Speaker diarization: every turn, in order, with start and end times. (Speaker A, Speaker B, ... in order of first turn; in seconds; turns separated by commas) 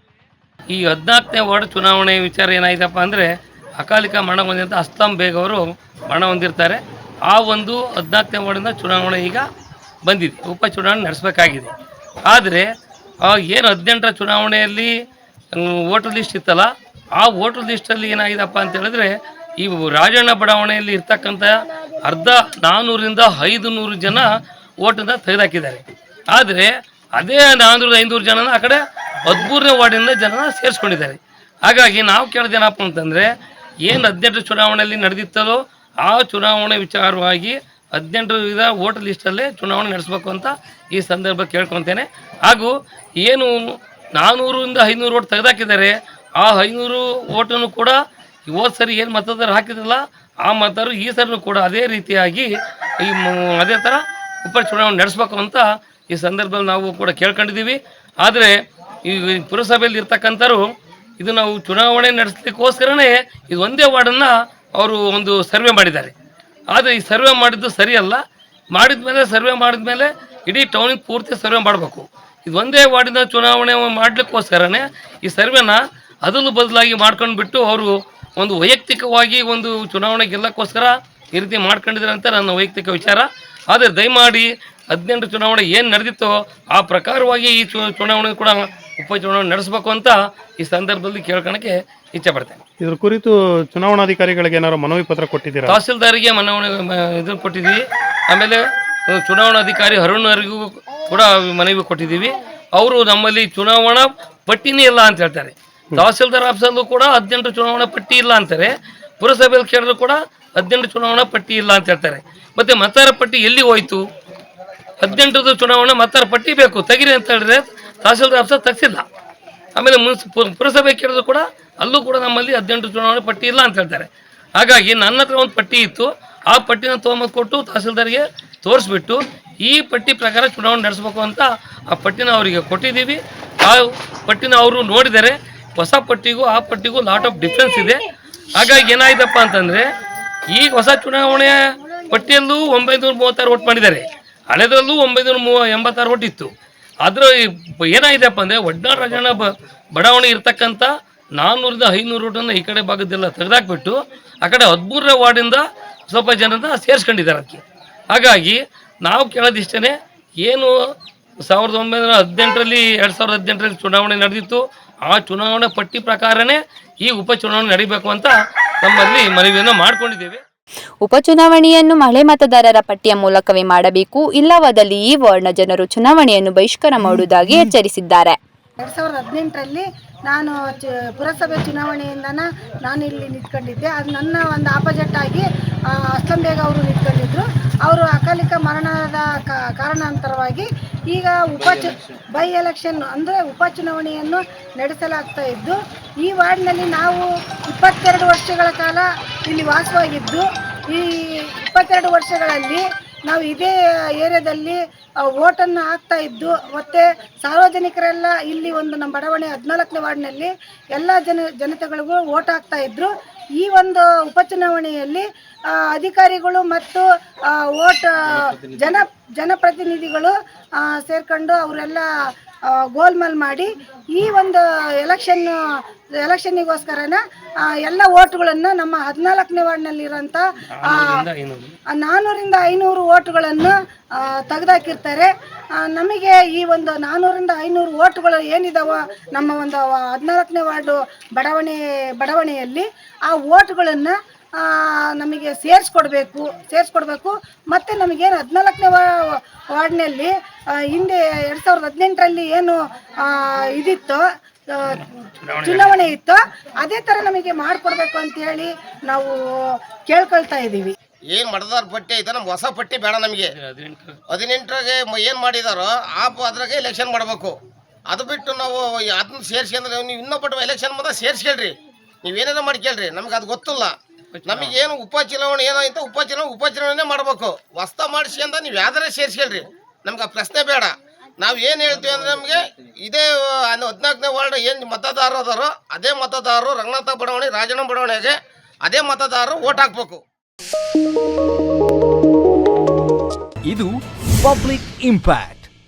Speaker A: 0.7-9.4, Speaker A: 10.0-11.7, Speaker A: 12.3-12.7, Speaker A: 13.2-14.9, Speaker A: 15.5-24.3, Speaker A: 24.8-33.3, Speaker A: 33.8-43.5, Speaker A: 44.1-48.0, Speaker A: 48.5-52.5, Speaker A: 53.0-58.5, Speaker A: 59.0-60.6, Speaker A: 61.2-66.1, Speaker A: 66.7-68.2, Speaker A: 68.7-92.6, Speaker B: 92.8-95.8, Speaker A: 95.7-114.0, Speaker A: 115.0-119.0, Speaker A: 119.8-138.0, Speaker A: 138.5-139.9, Speaker A: 140.5-141.6, Speaker A: 142.1-146.5, Speaker A: 147.0-160.7, Speaker A: 161.4-170.4, Speaker C: 171.0-178.3, Speaker D: 178.8-185.4, Speaker D: 186.1-222.1, Speaker D: 222.9-225.5, Speaker D: 226.2-231.1, Speaker A: 230.8-231.8, Speaker D: 231.9-255.0, Speaker A: 254.9-256.0, Speaker D: 255.6-259.4, Speaker D: 260.1-260.9, Speaker E: 261.3-263.5, Speaker A: 263.5-264.2, Speaker E: 264.3-267.6, Speaker E: 268.1-271.7, Speaker E: 272.2-273.9, Speaker A: 274.3-274.8, Speaker E: 274.5-290.2, Speaker F: 293.7-295.7